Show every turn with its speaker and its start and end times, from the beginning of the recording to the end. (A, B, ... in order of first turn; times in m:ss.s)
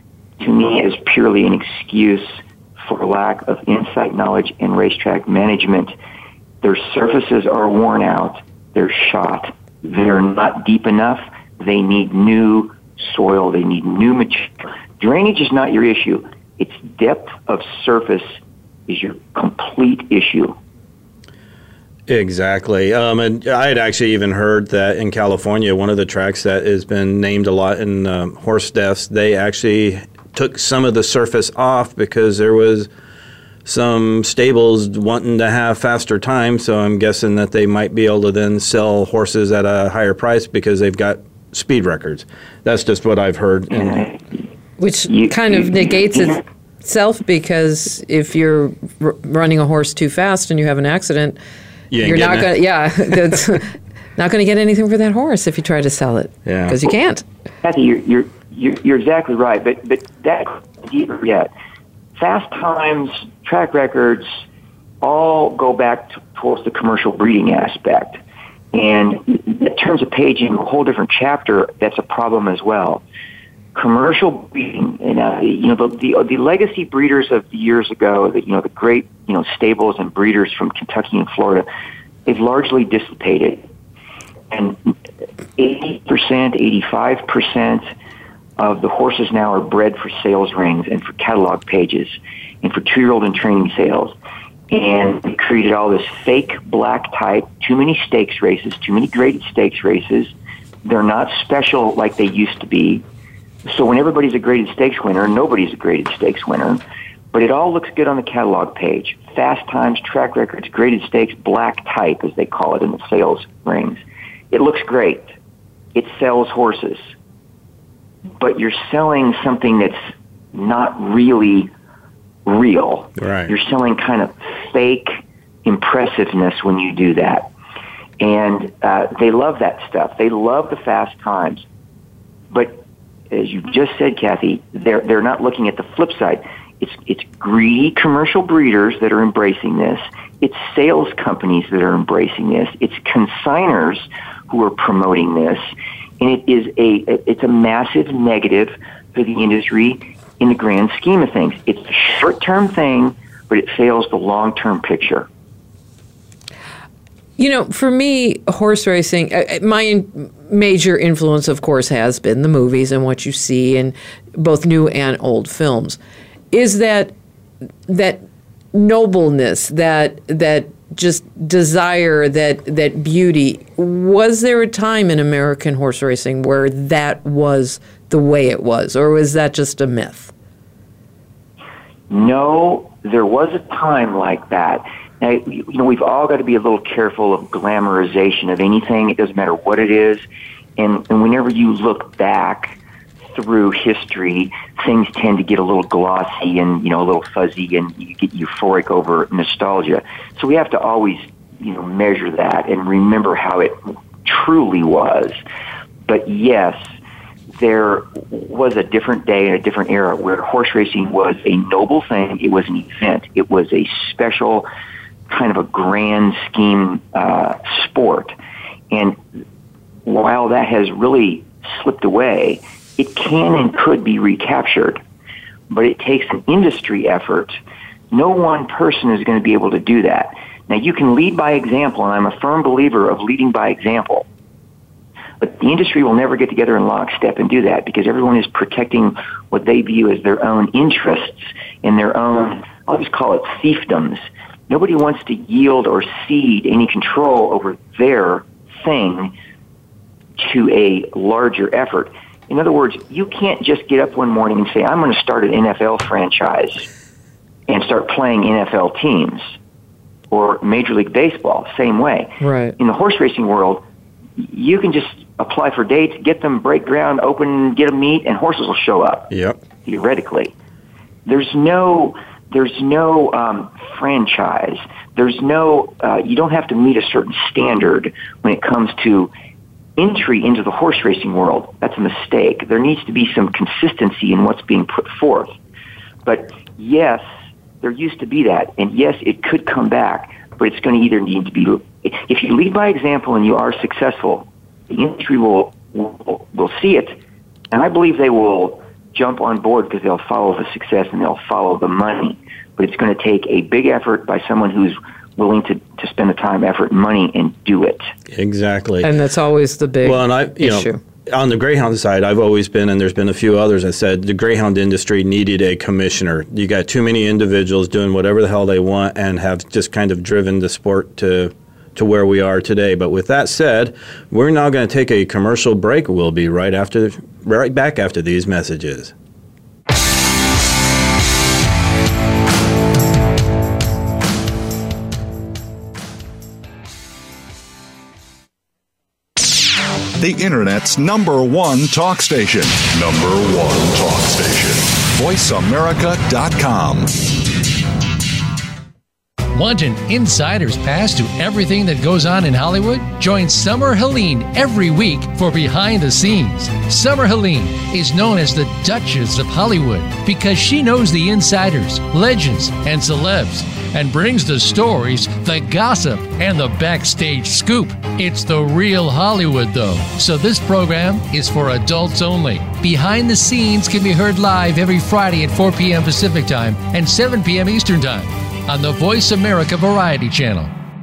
0:00.4-0:05.9 A
0:06.6-0:20.6 A
0:22.1-0:32.9 B
0:33.6-0:44.1 B
0:43.8-0:44.2 A
0:44.8-0:51.4 C
0:45.1-0:45.6 A
0:51.9-0:52.5 B
0:52.0-0:57.2 C
0:56.4-0:56.8 B
0:57.6-1:01.5 A
1:02.2-1:04.3 A
1:05.0-1:08.2 A
1:08.7-1:13.0 A
1:13.7-1:21.6 A
1:22.2-1:23.6 A
1:24.5-1:24.9 A
1:25.6-1:27.9 A
1:28.6-1:34.1 A
1:34.7-1:40.3 A
1:40.8-1:43.0 A
1:43.6-1:46.8 A
1:47.3-1:55.4 A
1:55.9-1:57.1 A
1:58.4-2:00.0 A
2:00.5-2:01.7 A
2:02.4-2:07.5 A
2:03.2-2:03.5 B
2:08.2-2:11.6 A
2:12.5-2:25.7 A
2:26.2-2:35.3 A
2:37.4-2:46.0 C
2:46.5-2:47.1 C
2:47.9-3:00.3 C
3:02.1-3:10.2 A
3:10.8-3:12.7 A
3:13.3-3:25.4 A
3:26.0-3:26.9 A
3:27.5-3:34.6 A
3:35.3-3:38.3 A
3:38.9-3:39.2 A
3:40.0-3:45.0 A
3:45.7-3:47.5 A
3:48.1-3:54.2 A
3:55.4-4:09.3 A
4:10.4-4:16.8 A
4:17.7-4:19.5 A
4:20.3-4:23.8 A
4:22.4-4:22.8 C
4:24.4-4:29.3 A
4:29.3-4:29.6 B
4:29.8-4:30.5 A
4:31.2-4:39.3 A
4:40.0-4:45.5 A
4:46.2-4:47.2 A
4:47.8-4:57.2 A
4:57.7-5:08.1 A
5:08.3-5:09.1 B
5:09.0-5:11.0 C
5:10.0-5:29.1 B
5:40.2-5:47.3 D
5:49.5-6:20.7 E